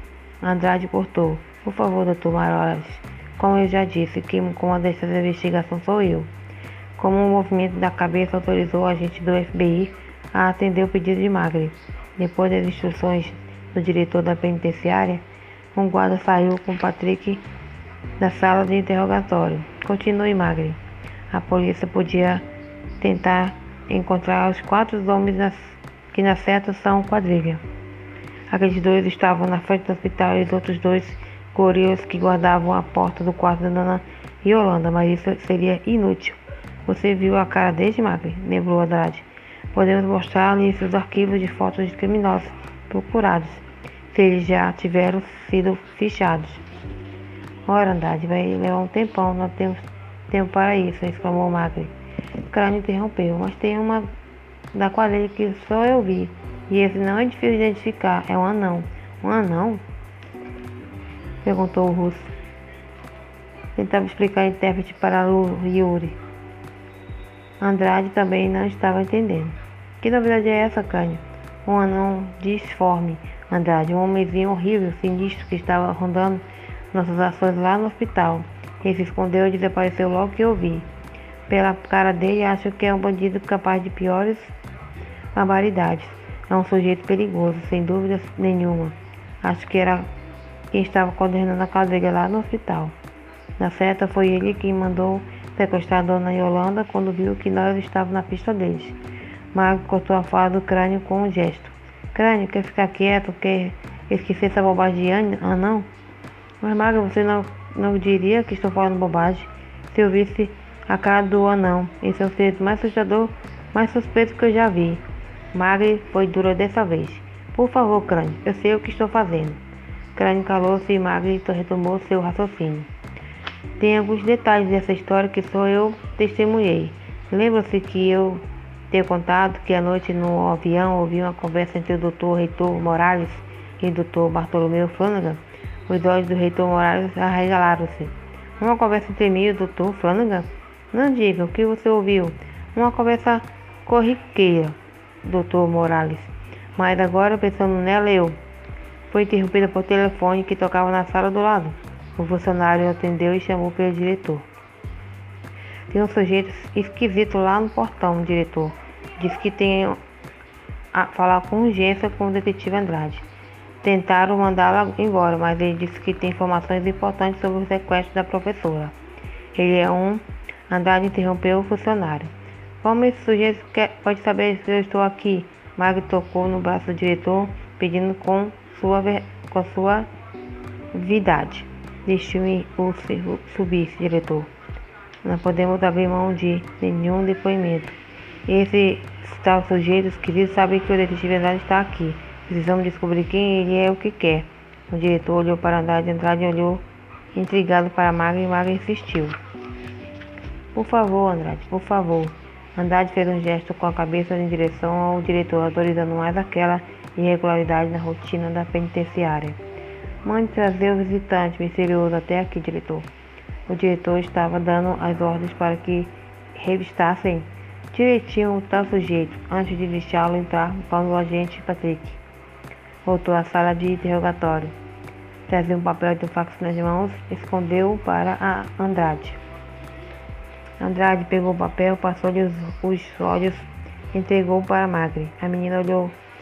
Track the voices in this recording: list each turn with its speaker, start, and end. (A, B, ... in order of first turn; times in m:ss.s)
0:00.4-0:06.3 A
0:07.0-0:17.4 A
0:18.2-0:20.8 A
0:21.3-0:22.4 A
0:23.0-0:27.6 A
0:28.5-0:46.6 A
0:47.7-0:51.9 A
0:52.5-0:54.1 A
0:54.7-0:59.8 A
1:01.4-1:02.3 A
1:03.8-1:06.2 A
1:07.6-1:20.9 A
1:21.5-1:24.5 A
1:25.3-1:30.1 A
1:30.7-1:32.9 A
1:33.6-1:39.0 A
1:39.5-1:45.9 A
1:46.6-1:59.6 A
2:00.1-2:02.9 A
2:03.8-2:28.4 A
2:29.1-2:34.4 A
2:35.9-2:40.0 A
2:40.9-2:43.2 A
2:43.8-2:48.9 A
2:49.5-3:00.1 A
3:00.9-3:04.5 A
3:05.2-3:19.4 A
3:20.7-3:29.6 A
3:30.2-3:33.1 A
3:33.7-3:42.2 A
3:43.0-3:44.7 A
3:45.5-3:49.4 A
3:50.8-3:56.2 A